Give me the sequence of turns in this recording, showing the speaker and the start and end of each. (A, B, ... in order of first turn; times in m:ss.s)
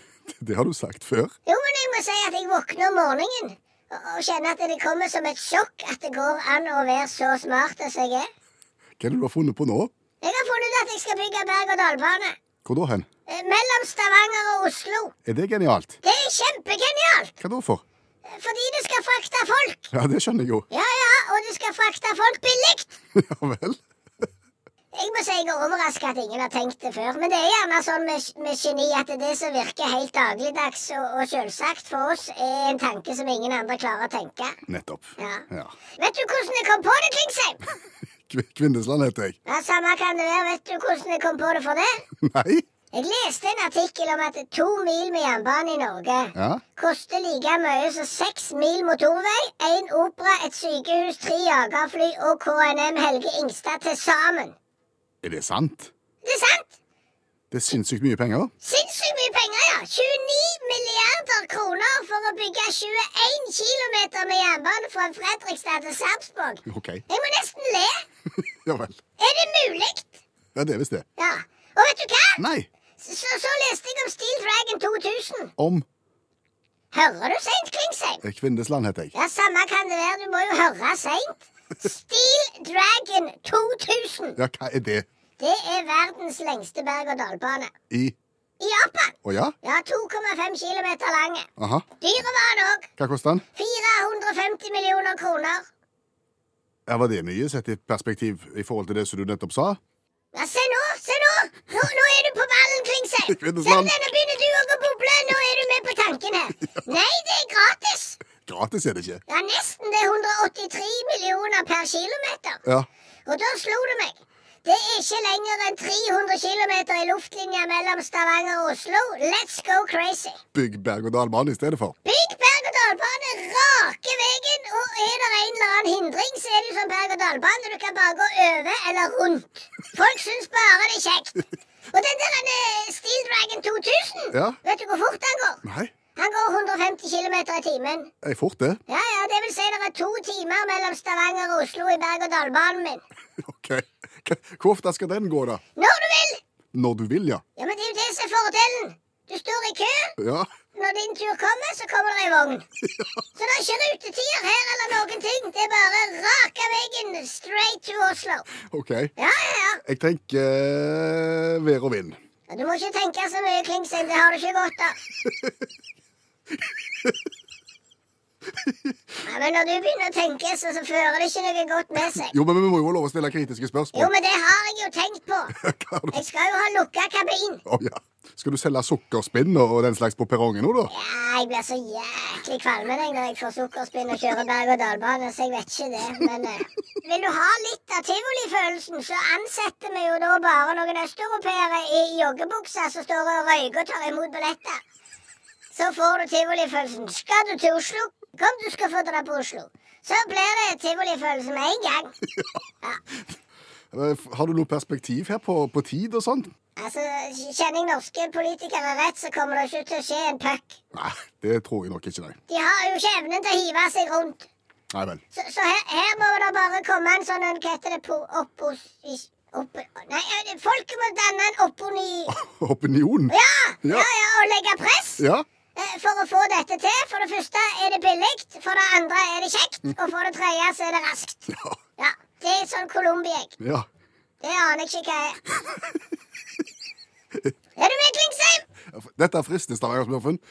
0:00.3-0:01.3 A
0:01.4-0:08.3 B
0:09.0-0:09.9 A
0:10.2-0:12.4 B
0:12.6-0:13.0 A
0:13.3-0:15.1 B
0:15.2-0:16.0 A
0:16.0-0:17.3 B
0:17.4-0:17.8 A
0:18.2-0:19.9 B
0:19.9-0:20.6 A
0:20.7-0:23.0 B
0:23.1-0:23.8 A
0:24.9-0:34.6 B
0:34.7-0:35.7 A
0:35.2-0:35.4 B
0:36.0-0:37.7 B
0:38.3-0:39.4 A
0:39.4-0:42.0 B
0:42.2-0:42.6 A
0:42.9-0:54.6 B
0:46.4-0:46.6 A
0:55.2-0:55.9 A
0:56.2-0:56.8 B
0:57.5-0:58.5 A
0:58.6-1:08.0 B
1:06.7-1:07.0 A
1:08.6-1:09.0 A
1:09.2-1:10.2 B
1:10.5-1:11.0 A
1:11.2-1:12.4 B
1:12.4-1:12.7 A
1:13.0-1:15.5 B
1:15.6-1:15.8 A
1:16.9-1:18.2 B
1:18.2-1:19.1 A
1:19.1-1:24.4 B
1:24.4-1:25.0 A
1:25.4-1:27.7 B
1:27.9-1:28.2 A
1:28.6-1:31.5 B
1:29.2-1:29.5 A
1:31.6-1:31.8 A
1:32.0-1:32.9 B
1:33.0-1:33.4 A
1:33.5-1:35.6 B
1:36.9-1:39.8 A
1:40.3-1:48.2 B
1:43.2-1:43.9 A
1:48.4-1:49.2 A
1:49.3-1:52.6 B
1:53.2-2:00.4 B
2:00.5-2:01.9 A
2:02.0-2:15.6 B
2:14.3-2:14.6 A
2:15.6-2:15.9 A
2:16.2-2:18.1 B
2:18.2-2:18.8 A
2:18.9-2:23.0 B
2:23.4-2:25.6 A
2:25.8-2:26.4 B
2:26.7-2:27.4 A
2:27.6-2:30.1 B
2:30.2-2:30.5 A
2:30.7-2:32.6 B
2:33.4-2:38.5 B
2:38.7-2:39.1 A
2:39.2-2:39.8 B
2:39.8-2:42.2 A
2:42.5-2:45.0 B
2:48.6-2:48.9 A
2:49.2-2:52.3 B
2:52.0-2:54.1 A
2:53.9-2:55.6 B
2:55.5-2:56.2 A
2:56.1-2:57.6 B
2:57.7-3:00.9 A
3:00.9-3:14.8 B
3:15.7-3:22.1 B
3:23.9-3:26.5 A
3:26.8-3:30.8 B
3:30.9-3:32.4 A
3:32.5-3:34.5 B
3:34.9-3:35.2 A
3:35.3-3:42.3 B
3:42.3-3:44.1 A
3:43.3-3:45.2 B
3:45.2-3:45.4 A
3:45.8-3:53.6 B
3:51.5-3:51.8 A
3:53.6-3:53.8 A
3:54.4-3:55.4 B
3:57.8-3:58.6 B
3:58.9-4:00.4 A